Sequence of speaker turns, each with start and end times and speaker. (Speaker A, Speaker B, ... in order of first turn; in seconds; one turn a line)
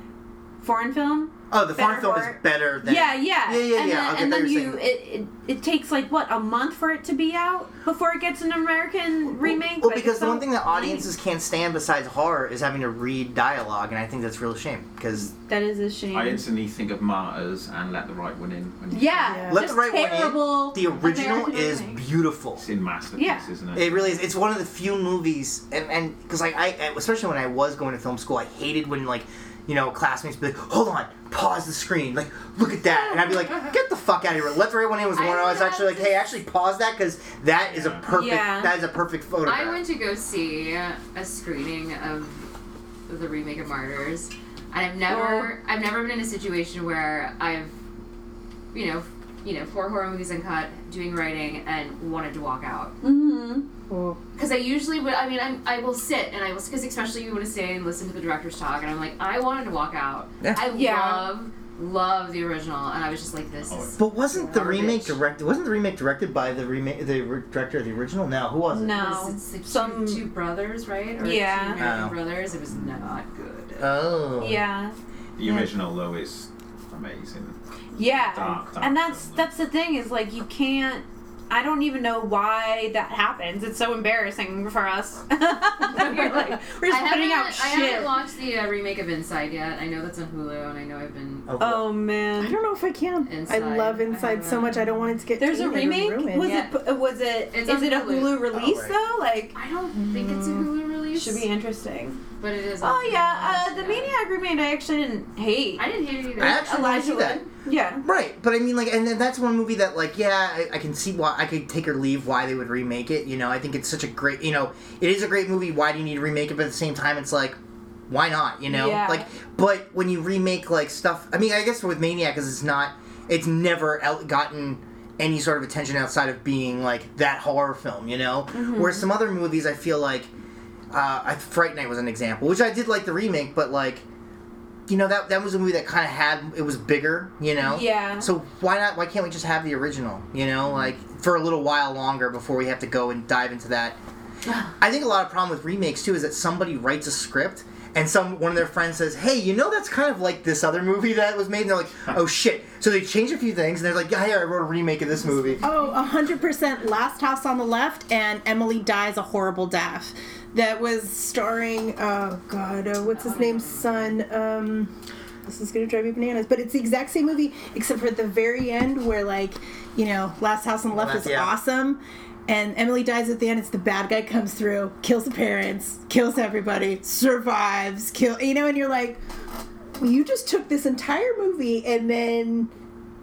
Speaker A: 0.6-11.1
Speaker B: 1.5-4.8
Speaker B: 9.3-15.3
Speaker A: 15.3-16.4
Speaker C: 16.1-19.5
Speaker A: 18.9-22.0
Speaker D: 19.3-19.6
Speaker B: 19.5-22.6
Speaker C: 22.6-24.2
Speaker A: 23.1-23.5
Speaker B: 23.7-39.8
Speaker E: 35.1-36.4
Speaker C: 37.7-38.0
Speaker A: 38.1-38.8
Speaker E: 39.5-42.5
Speaker E: 43.1-47.7
Speaker A: 45.1-45.5
Speaker E: 48.7-53.0
Speaker A: 53.0-53.7
Speaker D: 53.9-54.2
Speaker E: 54.4-65.2
Speaker A: 60.6-61.3
Speaker C: 63.7-64.0
Speaker B: 64.0-69.1
Speaker A: 68.7-70.2
Speaker E: 69.0-73.8
Speaker A: 71.2-71.8
Speaker B: 71.8-72.2
Speaker C: 72.7-73.0
Speaker B: 73.8-74.6
Speaker A: 74.4-75.0
Speaker C: 75.4-77.6
Speaker A: 78.0-88.1
Speaker C: 78.1-79.5
Speaker E: 85.9-91.5
Speaker B: 91.5-91.8
Speaker A: 91.6-92.5
Speaker D: 92.4-96.7
Speaker E: 93.2-95.1
Speaker A: 95.4-99.5
Speaker E: 97.5-98.4
Speaker B: 98.5-99.0
Speaker E: 99.5-101.5
Speaker D: 99.9-100.7
Speaker A: 101.2-102.2
Speaker E: 102.4-104.1
Speaker A: 102.8-108.0
Speaker E: 105.8-106.8
Speaker B: 106.4-107.5
Speaker B: 108.0-117.6
Speaker B: 118.1-130.3
Speaker A: 118.7-119.3
Speaker A: 128.5-129.1
Speaker B: 130.9-134.0
Speaker B: 134.9-144.0
Speaker A: 137.6-138.3
Speaker B: 144.8-155.6
Speaker D: 155.6-164.9
Speaker E: 163.1-164.2
Speaker D: 165.5-179.2
Speaker B: 170.9-171.5
Speaker D: 180.0-182.7